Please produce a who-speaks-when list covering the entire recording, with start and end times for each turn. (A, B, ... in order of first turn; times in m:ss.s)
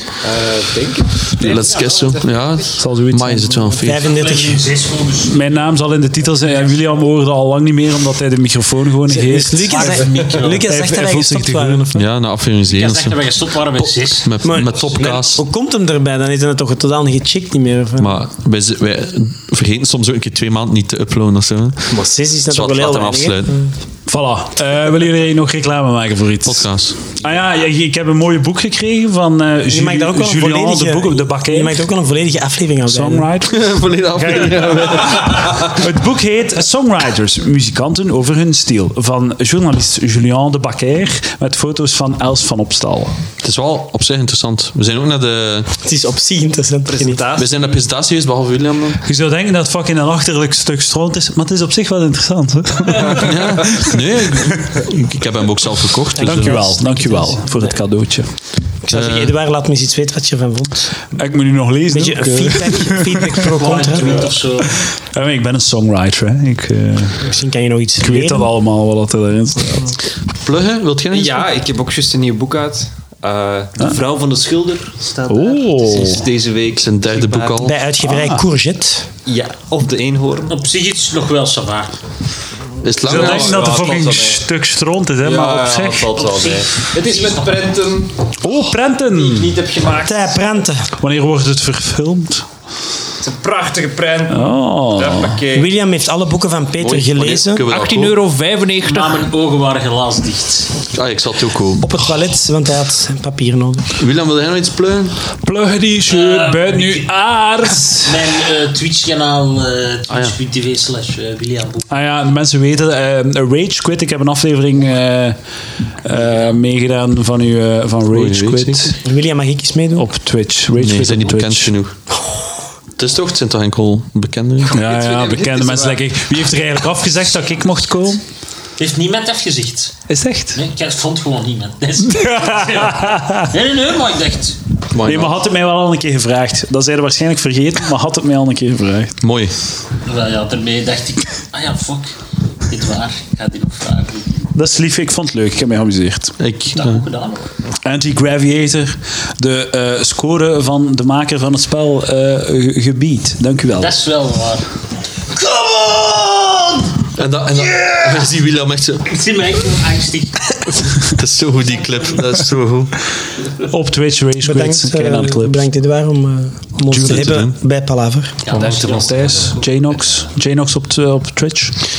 0:00.2-0:02.6 A
0:01.4-0:04.1 B
0:01.4-0:02.1 C
0:02.8-0:03.8 D
0:03.8-0:04.6 E
0:04.1-0:05.4 C
0:05.3-0:10.0 D
0:09.1-0:12.0 E
0:09.7-0:10.6 C
0:10.7-0:12.0 D
0:11.9-0:13.2 B
0:12.7-0:14.4 C
0:14.2-0:15.4 B
0:14.4-0:18.1 E
0:18.0-0:21.9 B
0:21.9-0:23.7 E
0:22.5-0:23.6 B
0:24.1-0:31.7 D
0:26.4-0:27.0 B
0:29.7-0:33.3 E
0:32.9-0:43.1 D
0:33.5-0:35.9 B
0:43.4-0:45.7 B
0:45.8-0:47.2 E
0:46.9-0:47.8 A
0:47.3-0:49.0 B
0:49.0-0:54.0 D
0:53.0-0:56.7 B
0:56.2-0:57.7 E
0:56.2-0:58.3 D
0:58.8-1:01.0 E
0:58.9-0:59.3 B
1:01.1-1:03.5 D
1:01.9-1:04.3 E
1:03.5-1:04.8 C
1:04.6-1:07.3 D
1:07.2-1:08.5 E
1:08.0-1:10.0 D
1:10.3-1:11.5 B
1:11.1-1:17.6 A
1:15.3-1:16.2 D
1:16.7-1:17.8 B
1:17.6-1:19.1 E
1:18.0-1:18.4 D
1:19.2-1:20.6 A
1:20.5-1:22.0 C
1:22.8-1:23.7 B
1:23.0-1:24.4 A
1:23.0-1:26.3 D
1:25.2-1:28.3 A
1:26.2-1:27.6 C
1:28.4-1:29.6 D
1:29.1-1:30.4 A
1:30.0-1:30.9 E
1:31.0-1:32.5 D
1:33.2-1:35.7 A
1:34.3-1:35.4 D
1:35.5-1:37.7 E
1:36.8-1:38.2 B
1:37.7-1:39.2 A
1:38.8-1:40.7 C
1:40.9-1:41.8 B
1:41.8-1:44.0 E
1:44.0-1:45.2 B
1:45.4-1:48.4 D
1:46.1-1:47.1 C
1:47.8-1:51.9 C
1:50.1-1:50.4 B
1:51.9-1:55.4 D
1:56.0-1:59.0 D
1:56.1-1:56.6 C
1:58.1-1:58.9 B
1:59.0-2:00.1 E
1:59.9-2:01.7 D
2:00.8-2:02.0 B
2:03.0-2:04.7 B
2:04.7-2:08.2 D
2:04.7-2:06.0 A
2:08.8-2:14.6 C
2:10.1-2:10.6 D
2:12.0-2:13.5 D
2:14.9-2:15.4 B
2:15.0-2:19.2 D
2:19.2-2:19.5 B
2:20.0-2:22.1 C
2:22.7-2:24.5 C
2:24.5-2:26.4 D
2:26.4-2:27.0 B
2:26.7-2:27.4 C
2:27.8-2:34.0 D
2:33.8-2:34.7 C
2:35.8-2:36.6 C
2:37.1-2:39.2 B
2:39.0-2:40.9 C
2:40.6-2:43.1 B
2:41.8-2:42.2 C
2:43.6-2:45.6 D
2:44.4-2:48.4 E
2:46.9-2:47.5 B
2:47.0-2:47.2 D
2:48.4-2:49.5 C
2:48.5-2:51.8 D